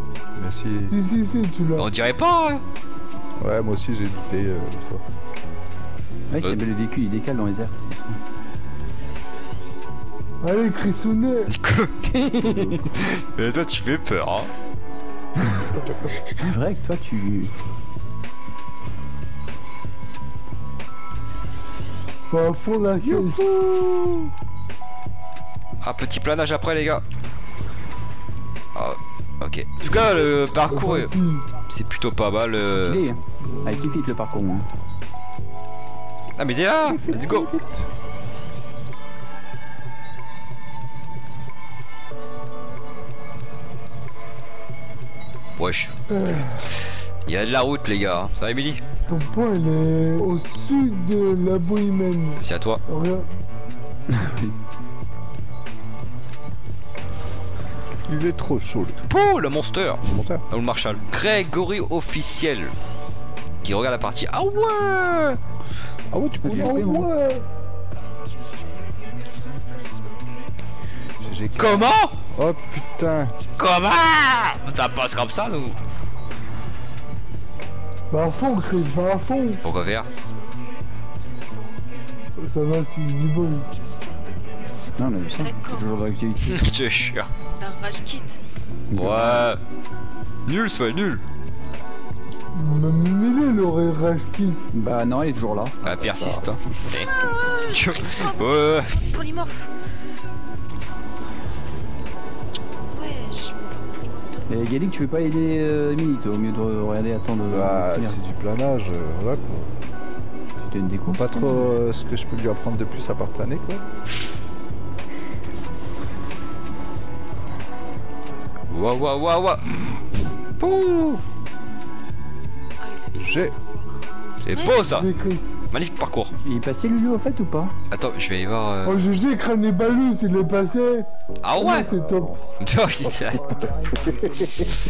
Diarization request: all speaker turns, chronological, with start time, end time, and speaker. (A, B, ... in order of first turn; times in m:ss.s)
0:00.4-0:01.0 A
0:00.9-0:01.9 B
0:01.7-0:02.6 C
0:03.4-0:05.0 A
0:06.3-0:08.2 D
0:10.4-0:11.5 B
0:11.5-0:14.5 C
0:12.1-0:12.8 A
0:16.4-0:17.5 D
0:22.3-0:23.5 B
0:23.0-0:24.2 C
0:25.8-0:27.0 C
0:28.7-0:31.1 C
0:30.7-0:31.4 B
0:31.7-0:33.0 C
0:32.7-0:34.7 D
0:36.4-0:37.5 C
0:36.8-0:37.9 A
0:45.6-0:46.1 C
0:46.1-0:46.5 B
0:47.2-0:48.8 C
0:49.1-0:53.3 B
0:52.4-0:52.8 C
0:54.1-0:54.5 D
0:58.1-0:59.0 A
0:59.1-1:02.7 C
1:00.1-1:00.4 A
1:03.6-1:05.4 C
1:06.1-1:07.4 A
1:06.4-1:07.1 D
1:11.2-1:13.3 A
1:11.6-1:12.2 C
1:13.6-1:15.8 C
1:18.1-1:19.7 B
1:19.6-1:20.1 C
1:22.4-1:23.7 B
1:25.0-1:26.6 D
1:25.4-1:26.0 E
1:26.4-1:27.3 C
1:27.6-1:28.4 E
1:28.9-1:29.5 D
1:28.9-1:29.6 C
1:30.4-1:31.2 C
1:32.5-1:34.6 B
1:34.7-1:35.8 D
1:35.8-1:37.1 C
1:35.8-1:36.5 A
1:36.9-1:39.7 E
1:37.7-1:39.0 C
1:42.9-1:44.5 E
1:44.5-1:48.2 D
1:47.5-1:49.8 A
1:50.6-1:51.6 D
1:51.1-1:53.8 A
1:58.7-1:59.7 C
2:00.6-2:01.2 C
2:02.8-2:04.9 E
2:03.1-2:03.5 A
2:04.4-2:05.1 C
2:04.8-2:05.6 B
2:05.7-2:06.3 C
2:06.4-2:07.7 D
2:07.9-2:09.0 C
2:08.8-2:12.4 B
2:11.4-2:11.9 C
2:12.6-2:13.4 C